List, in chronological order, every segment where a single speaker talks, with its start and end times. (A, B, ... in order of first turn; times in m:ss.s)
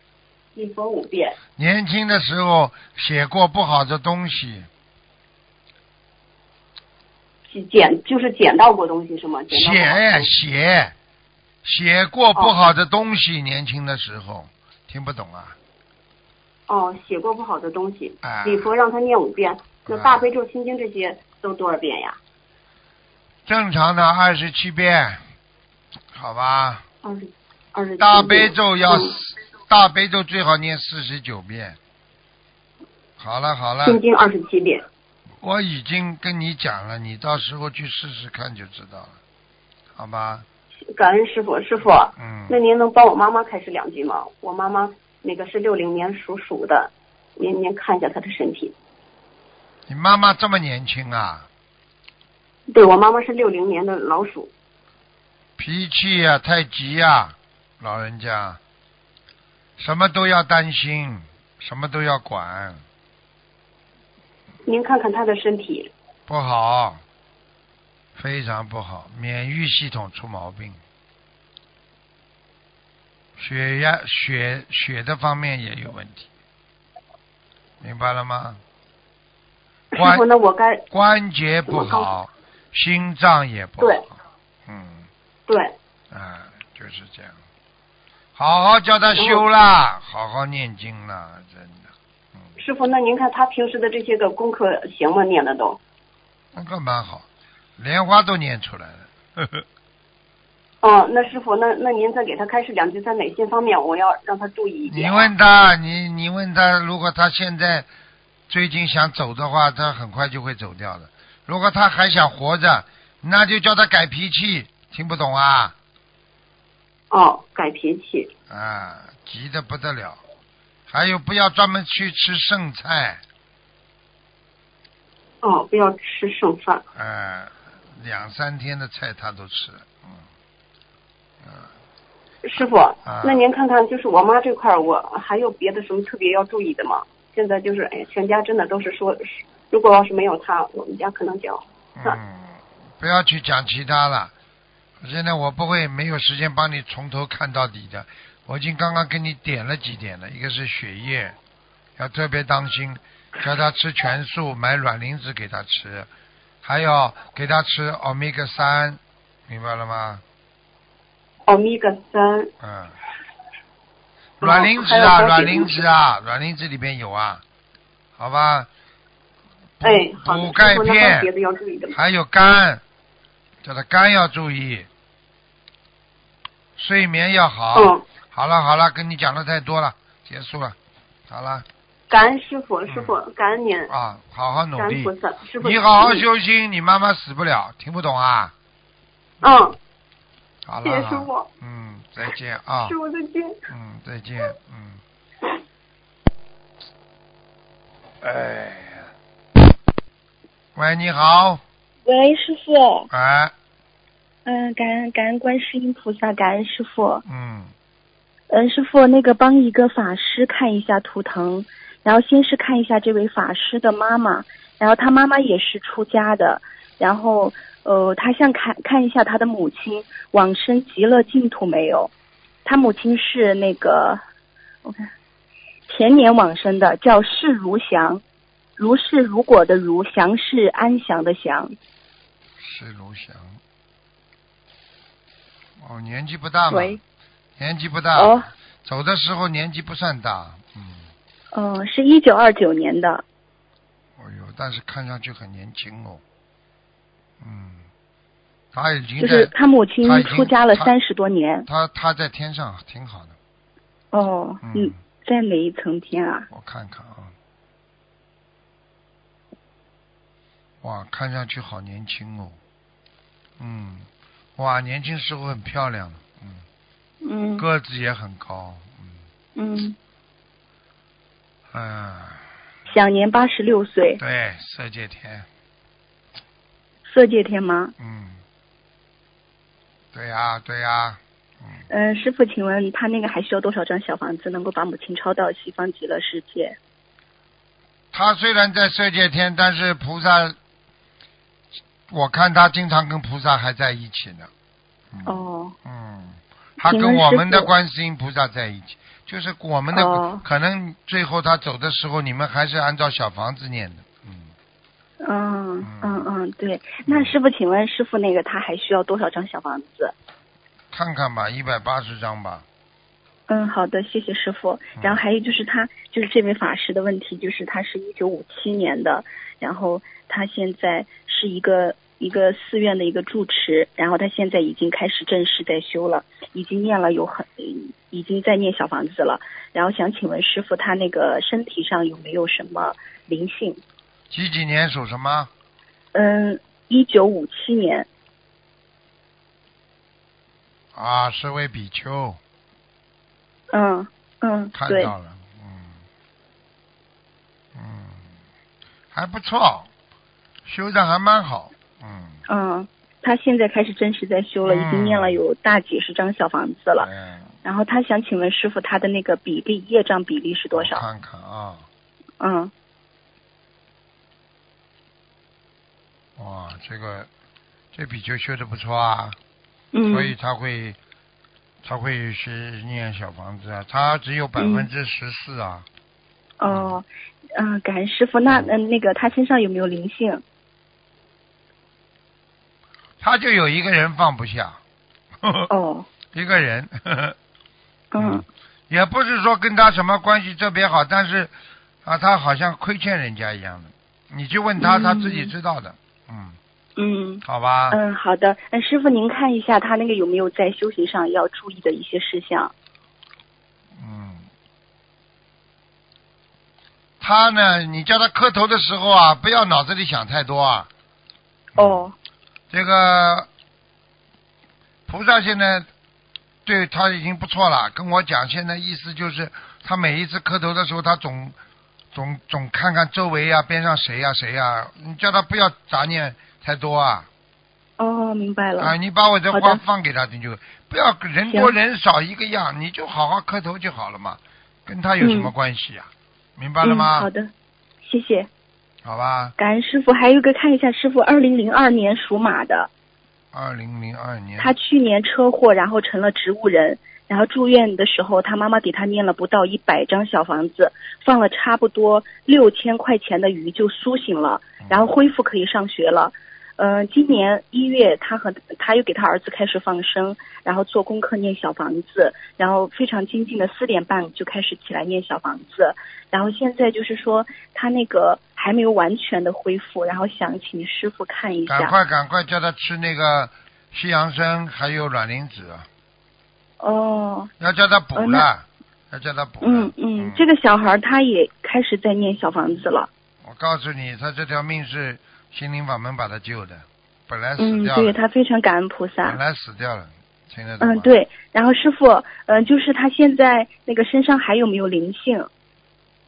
0:00.6-0:01.4 A
0:01.6-0:04.7 B
0:07.5-0:10.3 A
0:09.5-0:10.9 B
0:11.6-0:15.6 B
0:12.4-0:12.7 A
0:16.7-0:22.2 A
0:18.2-0:18.7 B
0:19.9-0:20.2 B
0:23.4-0:25.2 B
0:26.1-0:26.8 B
0:27.0-0:29.1 A
0:28.0-0:31.8 B
0:33.2-0:34.0 B
0:33.8-0:34.8 A
0:35.4-0:39.2 B
0:40.0-0:40.4 B
0:40.9-0:48.7 A
0:42.2-0:42.6 B
0:49.9-0:51.5 B
0:52.7-0:54.5 A
0:55.6-0:58.6 B
0:59.8-1:02.8 B
1:04.7-1:05.9 A
1:06.3-1:07.0 B
1:08.1-1:10.8 B
1:13.4-1:16.3 B
1:17.8-1:18.6 B
1:19.9-1:20.8 A
1:20.0-1:20.2 B
1:20.9-1:24.1 B
1:21.7-1:22.1 A
1:24.6-1:25.1 B
1:25.5-1:25.7 A
1:26.1-1:27.4 B
1:28.4-1:32.5 B
1:29.2-1:29.4 A
1:32.6-1:35.8 A
1:36.5-1:37.2 B
1:37.8-1:39.6 B
1:40.8-1:45.3 A
1:44.9-1:47.9 B
1:48.5-1:55.7 B
1:57.1-1:58.3 A
1:58.5-2:00.2 B
2:00.9-2:03.2 B
2:05.4-2:06.8 A
2:06.9-2:10.2 B
2:11.4-2:11.7 B
2:12.4-2:22.2 A
2:13.0-2:13.4 B
2:22.0-2:24.3 B
2:25.0-2:31.4 B
2:32.0-2:36.1 B
2:36.6-2:40.2 B
2:41.5-2:42.5 A
2:42.6-2:42.9 B
2:44.4-2:47.4 B
2:44.4-2:45.8 A
2:48.2-2:48.7 B
2:49.8-2:51.3 B
2:49.8-2:52.0 A
2:51.9-2:52.8 B
2:53.6-2:54.9 B
2:56.8-3:00.8 B
2:57.7-2:58.0 A
3:01.3-3:01.6 B
3:02.1-3:03.9 A
3:02.9-3:03.1 B
3:03.9-3:08.5 B
3:04.8-3:06.2 A
3:09.4-3:09.8 A
3:10.6-3:12.9 B
3:10.8-3:11.5 A
3:12.8-3:13.6 A
3:13.7-3:15.0 B
3:18.2-3:19.1 B
3:20.7-3:21.6 B
3:22.0-3:23.1 C
3:23.1-3:23.5 B
3:24.4-3:27.2 C
3:27.2-3:27.7 B
3:28.5-3:42.1 C
3:42.6-3:44.2 C
3:44.8-3:45.1 C
3:45.9-3:48.2 C
3:48.8-3:51.7 C
3:52.6-3:53.6 B
3:55.8-3:57.0 B
3:56.7-3:57.0 C
3:57.6-4:01.1 B
3:58.1-3:58.5 C
4:01.5-4:03.2 C
4:04.2-4:06.2 B
4:07.4-4:07.9 B
4:08.7-4:09.5 B
4:09.2-4:11.7 C
4:10.0-4:10.9 B
4:11.6-4:13.4 B
4:14.1-4:16.5 C
4:14.6-4:15.0 B
4:16.5-4:17.3 B
4:20.8-4:22.6 B
4:23.6-4:26.6 B
4:27.2-4:27.7 C
4:27.6-4:29.2 B
4:29.6-4:30.0 C
4:31.7-4:32.4 B
4:32.9-4:34.2 C
4:34.2-4:35.5 B
4:37.0-4:37.9 C
4:38.0-4:38.4 B
4:40.1-4:41.8 B
4:41.9-4:46.8 C
4:48.1-4:50.6 B
4:52.1-4:54.5 B
4:55.1-5:04.5 B
4:55.2-4:55.8 C
4:56.8-4:57.7 C
4:59.9-5:00.4 C
5:05.2-5:10.1 C
5:05.8-5:06.3 B
5:07.0-5:07.3 B
5:10.9-5:12.6 B
5:13.5-5:33.8 C
5:34.3-5:35.5 B
5:36.1-5:38.1 C
5:40.9-5:42.4 B
5:43.7-5:45.1 C
5:44.7-5:46.0 B
5:47.7-5:48.3 B
5:49.1-5:49.9 B
5:50.6-5:52.4 B
5:52.5-5:57.1 C
5:54.6-5:55.4 B
5:57.0-5:57.5 B
5:57.6-6:01.0 C
6:00.7-6:01.9 B
6:02.4-6:02.7 C
6:06.4-6:07.3 B
6:07.9-6:09.4 B
6:09.9-6:10.3 C
6:10.1-6:11.0 B
6:11.8-6:15.8 B
6:14.6-6:14.9 C
6:16.6-6:20.4 C
6:16.7-6:17.0 B
6:18.5-6:18.7 B
6:23.2-6:24.8 B
6:25.4-6:25.7 B
6:25.7-6:26.1 C
6:26.3-6:27.4 B
6:28.1-6:28.4 C
6:28.2-6:31.5 B
6:32.0-6:36.6 B
6:34.8-6:35.5 C
6:37.0-6:42.7 C
6:37.4-6:38.0 B
6:44.0-6:44.5 B
6:47.2-6:50.9 B
6:51.7-6:52.1 B
6:51.7-6:52.1 C
6:52.7-6:53.5 B
6:55.1-6:55.9 B
6:56.6-7:01.6 B
7:02.1-7:07.3 B
7:08.0-7:08.9 C
7:08.8-7:17.3 B
7:09.5-7:09.8 C
7:11.5-7:11.7 C
7:15.2-7:15.5 C
7:16.8-7:17.5 C
7:18.0-7:18.5 C
7:19.0-7:19.5 B
7:19.6-7:22.9 C
7:23.5-7:24.7 B
7:24.6-7:51.9 C
7:34.8-7:35.1 B
7:51.7-7:55.9 B
7:56.8-7:57.5 C
7:57.6-8:00.4 B
7:58.1-7:58.5 C
7:59.6-8:03.1 C
8:03.4-8:08.2 B
8:07.6-8:09.4 C
8:09.2-8:11.2 B
8:10.8-8:15.5 C